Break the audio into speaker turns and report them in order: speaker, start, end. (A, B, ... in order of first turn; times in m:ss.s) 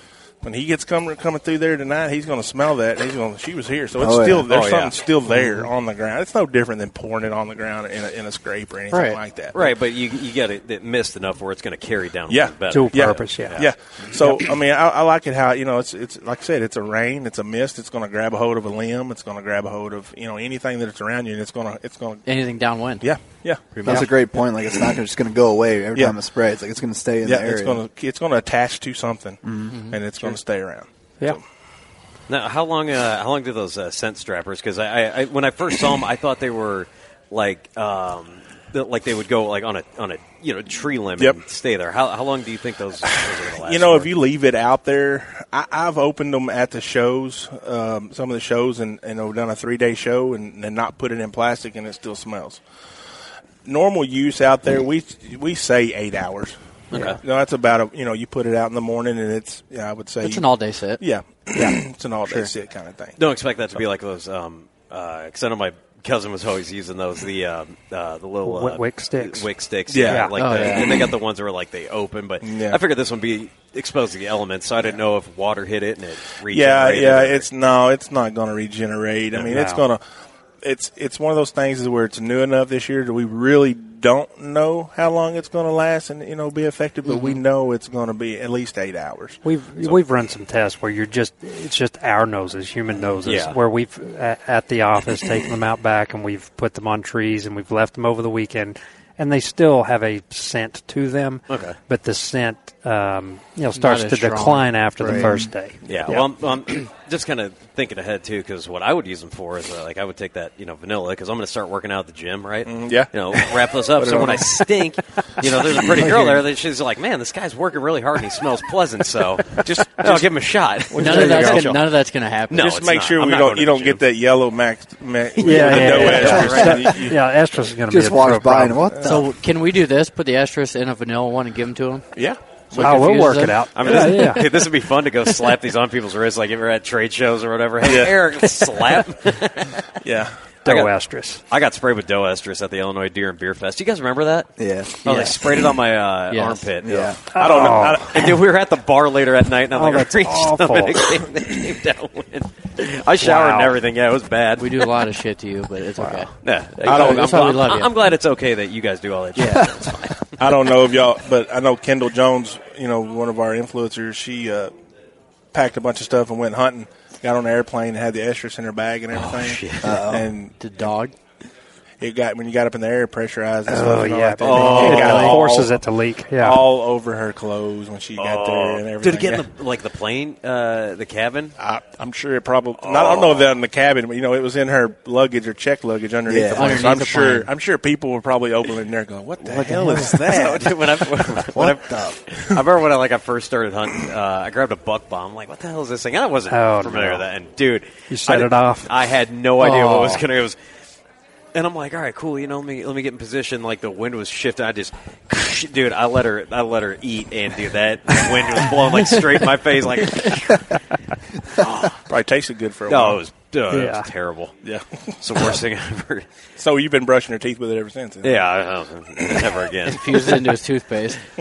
0:00.4-0:09.6 A
0:04.0-0:04.5 B
0:04.5-0:05.0 C
0:05.3-0:05.6 D
0:08.9-0:09.2 D
0:09.5-0:13.7 C
0:12.3-0:22.3 A
0:12.7-0:13.6 E
0:22.2-0:23.0 D
0:23.0-0:24.0 A
0:23.7-0:24.0 D
0:23.8-0:27.8 B
0:27.2-0:31.4 A
0:29.4-0:29.7 B
0:29.7-0:30.0 D
0:32.3-0:44.1 C
0:43.0-0:52.6 A
0:53.6-0:56.6 A
0:56.9-0:57.2 C
0:57.2-1:03.2 A
1:00.2-1:01.0 D
1:02.2-1:02.5 D
1:03.2-1:17.5 C
1:08.4-1:09.5 E
1:09.9-1:10.8 A
1:10.1-1:10.3 E
1:10.3-1:11.1 D
1:12.4-1:12.8 A
1:16.5-1:20.0 A
1:19.4-1:19.8 E
1:20.6-1:30.0 A
1:27.0-1:27.4 D
1:29.4-1:46.3 E
1:33.2-1:33.6 C
1:41.5-1:41.8 C
1:43.7-1:45.4 D
1:45.1-1:45.5 B
1:45.8-2:01.9 C
1:52.6-1:54.7 A
1:55.4-1:56.4 A
1:59.6-2:00.3 A
2:00.9-2:01.7 E
2:01.0-2:02.6 D
2:02.5-2:04.0 C
2:02.5-2:07.2 A
2:05.4-2:07.0 C
2:05.4-2:08.9 E
2:07.9-2:09.3 B
2:08.9-2:09.2 A
2:09.0-2:12.0 D
2:12.2-2:13.2 A
2:12.7-2:14.4 D
2:12.8-2:14.4 E
2:13.7-2:19.8 C
2:17.8-2:18.1 A
2:20.0-2:20.4 A
2:20.6-2:20.9 C
2:20.6-2:21.4 E
2:21.5-2:24.5 C
2:24.6-2:25.0 B
2:25.0-2:34.9 C
2:25.0-2:25.4 D
2:26.3-2:26.7 D
2:26.8-2:27.2 B
2:27.3-2:28.1 E
2:27.3-2:28.4 A
2:29.7-2:31.2 E
2:33.2-2:33.7 E
2:34.6-2:36.3 D
2:36.0-2:36.3 E
2:36.4-2:40.7 C
2:36.8-2:37.9 D
2:36.8-2:37.5 A
2:39.4-2:39.7 D
2:40.4-2:44.7 A
2:45.5-2:50.6 A
2:49.1-2:50.0 C
2:49.8-2:50.3 B
2:50.6-2:51.1 D
2:52.0-2:55.8 A
2:53.7-2:56.6 E
2:54.4-2:55.4 C
2:54.6-2:55.3 D
2:56.3-2:59.4 A
2:58.2-3:01.6 C
3:01.6-3:11.4 A
3:02.8-3:03.5 C
3:06.3-3:06.8 B
3:06.5-3:07.5 D
3:09.4-3:20.6 C
3:09.6-3:10.1 D
3:11.5-3:12.1 B
3:16.5-3:17.2 E
3:18.1-3:18.9 E
3:19.6-3:20.2 D
3:21.5-3:30.7 C
3:31.5-3:32.0 C
3:32.1-3:33.2 A
3:32.9-3:34.6 C
3:33.7-3:34.1 E
3:34.6-3:35.0 A
3:35.2-3:36.2 C
3:36.6-3:38.4 A
3:38.2-3:40.4 C
3:39.9-3:41.2 D